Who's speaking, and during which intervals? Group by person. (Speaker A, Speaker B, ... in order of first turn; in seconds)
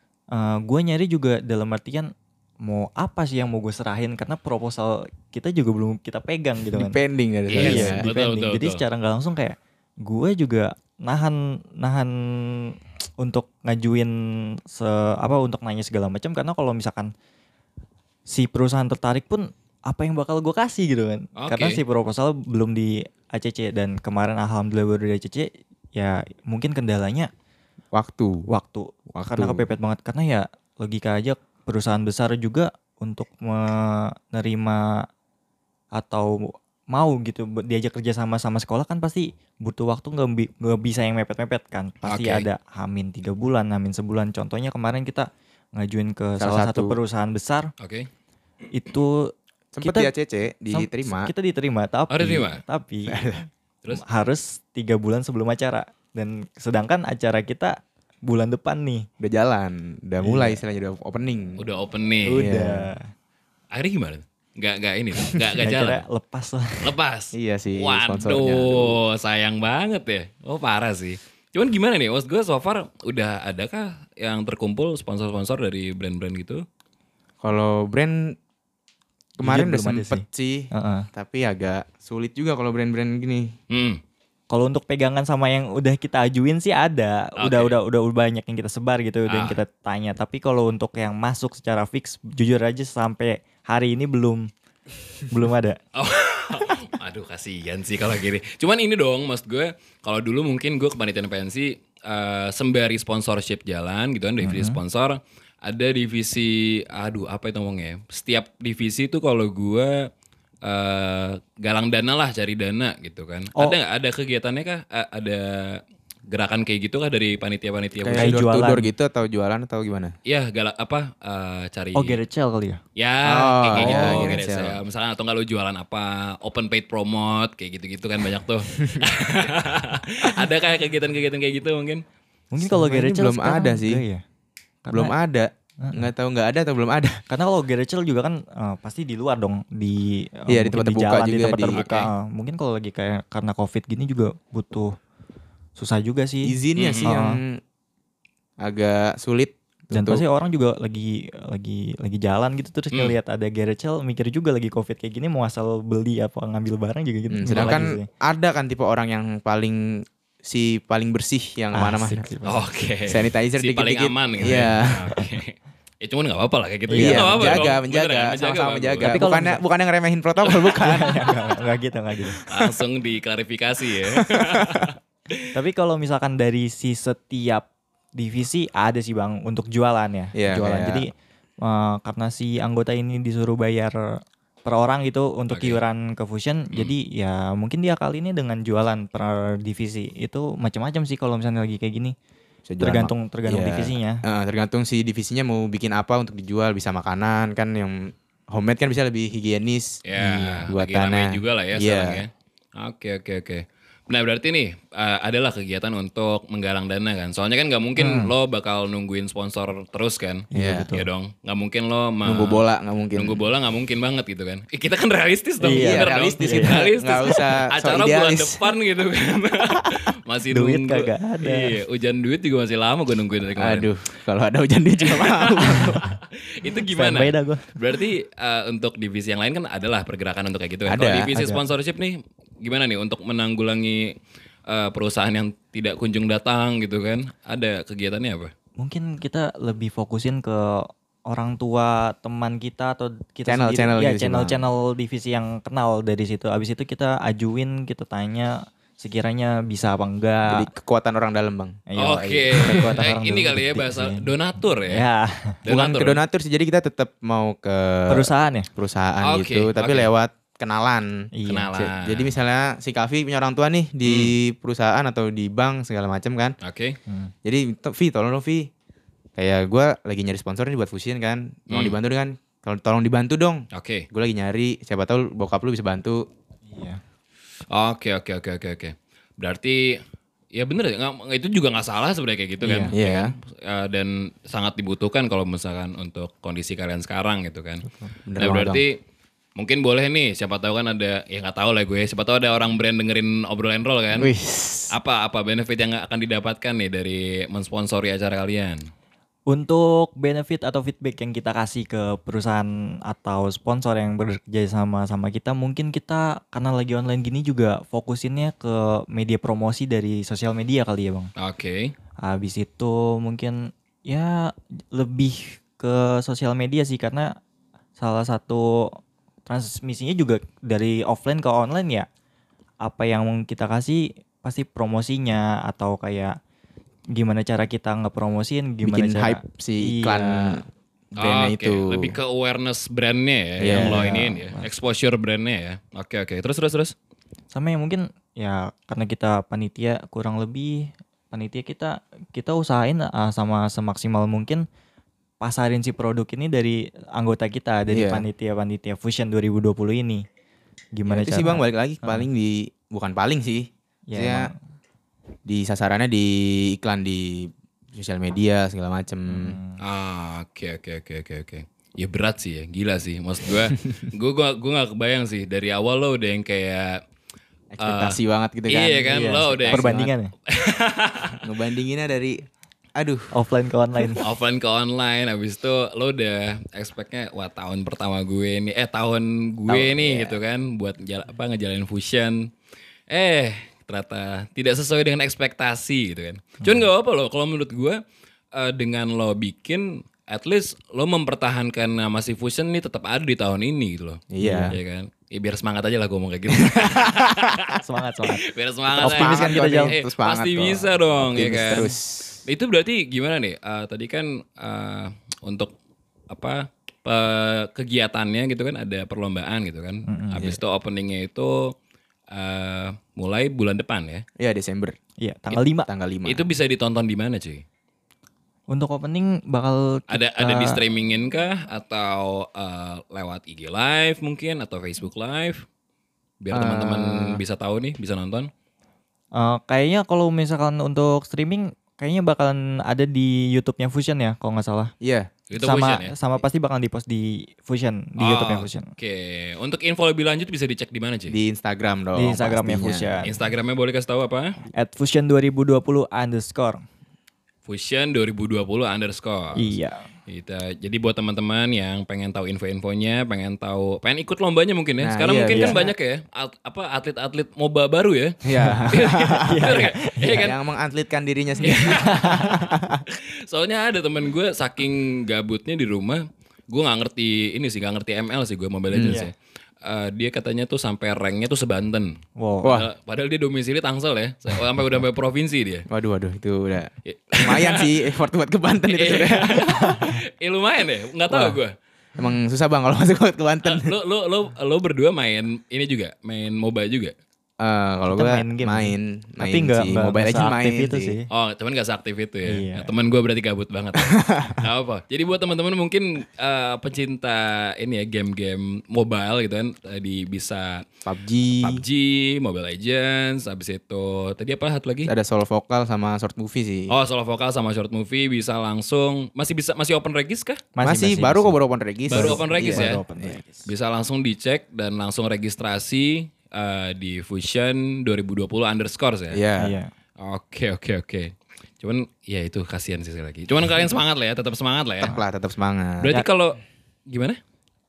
Speaker A: 0.3-7.0, 7.5-17.1, 18.3-27.3, 28.5-35.0, 35.9-47.7, 48.7-50.1, 50.7-53.2, 53.9-59.0, 60.2-60.6, 62.3-63.1, 65.6-66.9, 79.4-81.1, 84.5-94.5, 95.3-95.8, 104.4-104.8, 118.1-118.9, 121.9-122.8, 123.8-124.4, 132.5-134.2, 134.8-135.1, 135.8-136.1, 137.3-144.9, 145.8-147.4, 149.9-158.1, 161.7-162.7, 164.4-165.2, 166.9-167.7, 169.0-169.6, 170.8-172.4, 175.5-192.1, 192.8-194.2, 200.2-200.6, 208.0-208.3, 210.5-211.1, 215.6-217.3, 220.5-221.8, 226.9-227.8, 231.3-231.6, 238.8-250.7, 251.9-254.3, 254.8-255.6, 258.1-258.7, 261.3-261.7, 267.1-267.3, 276.7-277.0, 282.6-282.9, 287.8-288.1, 299.5-311.3, 312.2-317.4, 318.0-322.1, 322.8-326.4, 327.1-330.6, 333.7-334.7, 337.5-344.6, 345.4-350.2, 350.9-352.3, 354.1-354.5, 359.3-359.8, 369.1-370.3, 373.3-374.2, 394.4-394.7, 397.8-398.4, 399.0-399.9, 401.4-401.9, 410.1-410.4, 415.2-415.9, 418.7-420.8, 429.3-434.9, 435.6-438.9, 442.1-443.3, 444.7-446.8, 449.6-450.0, 455.5-455.9, 458.6-458.8, 459.4-460.5, 462.0-462.6, 472.4-472.8, 479.8-480.1, 488.1-491.3, 492.4-492.9, 510.8-511.6, 512.1-513.7, 519.6-519.9
Speaker B: 6.7-8.0, 27.9-28.4, 29.1-29.6, 46.4-47.0, 49.7-51.3, 53.1-53.5, 59.2-61.6, 62.3-62.9, 67.3-69.0, 77.4-78.4, 79.4-83.5, 118.0-120.1, 123.2-124.8, 132.6-134.0, 134.9-137.2, 140.5-141.9, 146.4-147.6, 148.6-150.2, 157.3-162.3, 163.1-165.1, 167.0-171.3, 174.1-174.9, 180.3-181.0, 192.7-200.0, 200.7-202.2, 210.5-210.9, 212.2-213.4, 215.7-218.7, 223.6-226.0, 230.9-231.3, 243.5-244.6, 250.5-253.1, 255.7-266.6, 267.4-268.7, 269.4-276.3, 282.9-283.3, 288.3-288.8, 294.1-294.9, 328.8-330.6, 331.2-332.1, 333.6-334.3, 347.9-348.2, 351.1-354.5, 355.4-359.6, 367.7-370.1, 371.4-373.3, 379.7-380.4, 394.3-394.8, 396.5-397.6, 398.9-402.4, 414.4-414.9, 415.5-416.4, 426.5-427.4, 435.0-435.3, 441.3-443.2, 455.0-455.9, 458.4-463.0, 468.9-469.2, 472.6-472.9, 475.9-479.7, 482.2-483.9, 487.6-491.1, 494.0-494.6, 501.1-501.8, 505.1-506.9, 510.8-513.3, 519.3-519.7, 525.0-526.2
Speaker C: 7.5-8.8, 21.4-21.8, 42.0-42.5, 47.8-48.1, 52.1-52.6, 61.6-62.5, 63.7-66.0, 66.8-76.6, 83.7-84.0, 87.4-87.8, 89.3-89.6, 95.9-110.1, 110.6-118.4, 120.2-122.2, 123.0-132.0, 141.7-142.1, 146.8-147.1, 152.9-153.2, 162.4-169.2, 170.4-170.8, 172.4-175.4, 185.5-185.8, 200.0-223.9, 225.0-238.5, 252.0-255.0, 255.6-256.2, 259.2-260.1, 261.5-262.3, 264.0-264.3, 266.6-267.0, 271.7-271.9, 273.7-274.1, 277.7-280.0, 280.5-287.8, 288.4-289.0, 289.6-294.3, 294.9-298.8, 311.4-311.9, 331.2-336.9, 359.8-367.0, 367.8-368.2, 368.7-369.9, 370.5-371.4, 374.2-382.5, 383.1-388.0, 388.5-401.9, 402.4-405.7, 406.3-411.7, 412.3-414.2, 416.2-417.6, 420.1-425.6, 426.4-428.5, 435.5-436.1, 438.2-441.4, 443.2-444.6, 447.6-449.7, 450.3-460.6, 461.6-462.6, 463.1-475.9, 477.1-477.9, 478.9-481.7, 483.6-487.1, 491.3-500.9, 501.6-505.1, 506.9-510.6, 512.1-513.0, 513.6-519.4, 520.2-525.2, 526.0-527.4